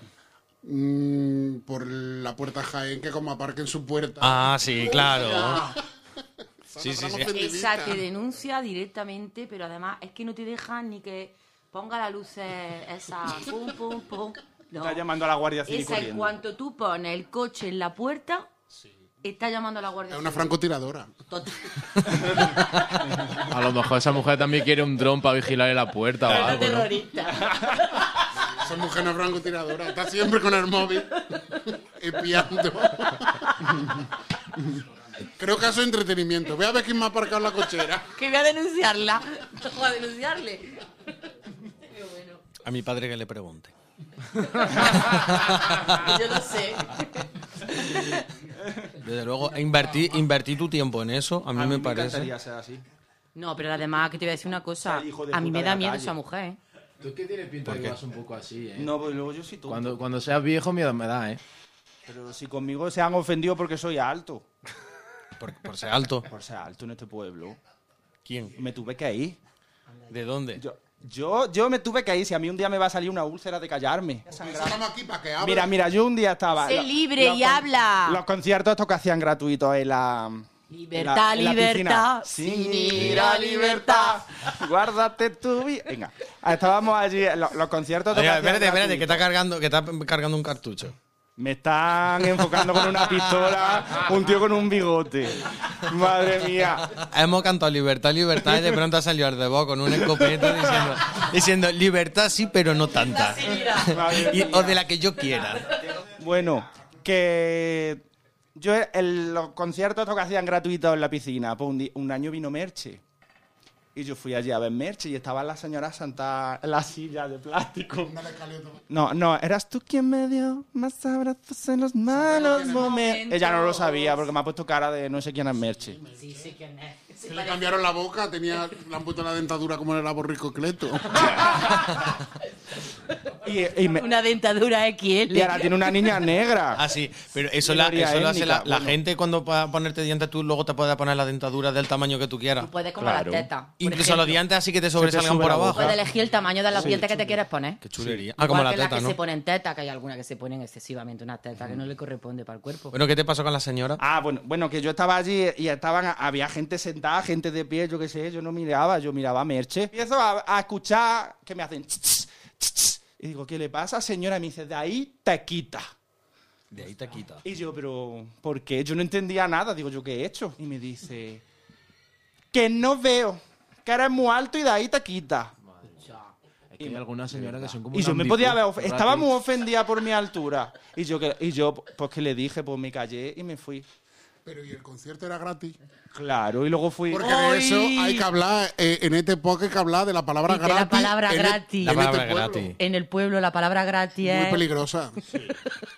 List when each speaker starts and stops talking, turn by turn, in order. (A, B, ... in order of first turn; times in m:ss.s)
0:00.6-0:05.8 A
0:04.2-0:05.7 B
0:06.7-0:08.0 A
0:06.8-0:07.3 B
0:07.3-0:15.0 C
0:14.8-0:16.3 D
0:15.6-0:18.5 C
0:19.2-0:20.5 C
0:20.1-0:21.2 A
0:23.5-0:27.0 E
0:26.2-0:28.1 C
0:28.4-0:31.1 A
0:31.3-0:31.6 C
0:31.8-0:34.0 A
0:35.4-0:38.1 A
0:38.1-0:40.8 C
0:41.9-0:42.4 C
0:42.6-0:43.7 B
0:44.4-0:44.9 C
0:44.8-0:46.1 B
0:45.9-0:48.3 C
0:49.0-0:52.3 B
0:51.5-0:52.8 D
0:53.4-0:56.6 C
0:54.8-0:56.1 D
0:57.0-0:58.9 E
0:57.6-0:58.0 B
0:58.8-1:00.0 D
0:59.7-1:01.4 E
1:02.0-1:04.4 D
1:05.4-1:06.3 B
1:06.3-1:07.6 D
1:08.2-1:08.6 B
1:08.6-1:09.4 D
1:10.1-1:10.6 B
1:10.6-1:14.8 D
1:14.3-1:15.7 A
1:15.4-1:29.2 D
1:16.6-1:18.2 C
1:20.7-1:24.2 C
1:28.1-1:30.9 B
1:31.4-1:36.9 D
1:36.9-1:45.8 B
1:40.0-1:40.7 D
1:43.6-1:44.8 D
1:45.7-1:48.0 D
1:48.6-1:53.0 D
1:53.9-1:58.2 D
1:58.0-1:58.8 A
1:58.9-2:06.0 D
2:02.1-2:03.0 A
2:02.3-2:04.3 C
2:05.6-2:06.5 A
2:06.2-2:07.7 C
2:07.2-2:11.6 A
2:13.4-2:14.0 D
2:14.0-2:16.1 C
2:15.3-2:16.8 D
2:16.7-2:23.2 B
2:17.6-2:19.0 D
2:22.6-2:24.4 C
2:23.0-2:23.4 D
2:23.8-2:26.0 B
2:24.9-2:26.0 D
2:25.7-2:27.8 C
2:26.7-2:27.3 D
2:27.8-2:29.2 B
2:28.0-2:28.2 D
2:28.4-2:33.0 C
2:32.9-2:34.0 B
2:34.0-2:45.9 D
2:46.7-2:47.4 B
2:47.4-2:51.4 D
2:52.5-2:55.5 D
2:56.0-2:56.3 C
2:56.7-2:59.3 E
2:56.8-3:03.8 D
3:04.4-3:05.8 A
3:06.1-3:07.5 D
3:07.1-3:12.7 A
3:07.2-3:08.2 C
3:10.5-3:12.2 C
3:11.8-3:12.8 B
3:12.8-3:14.6 C
3:14.2-3:15.2 A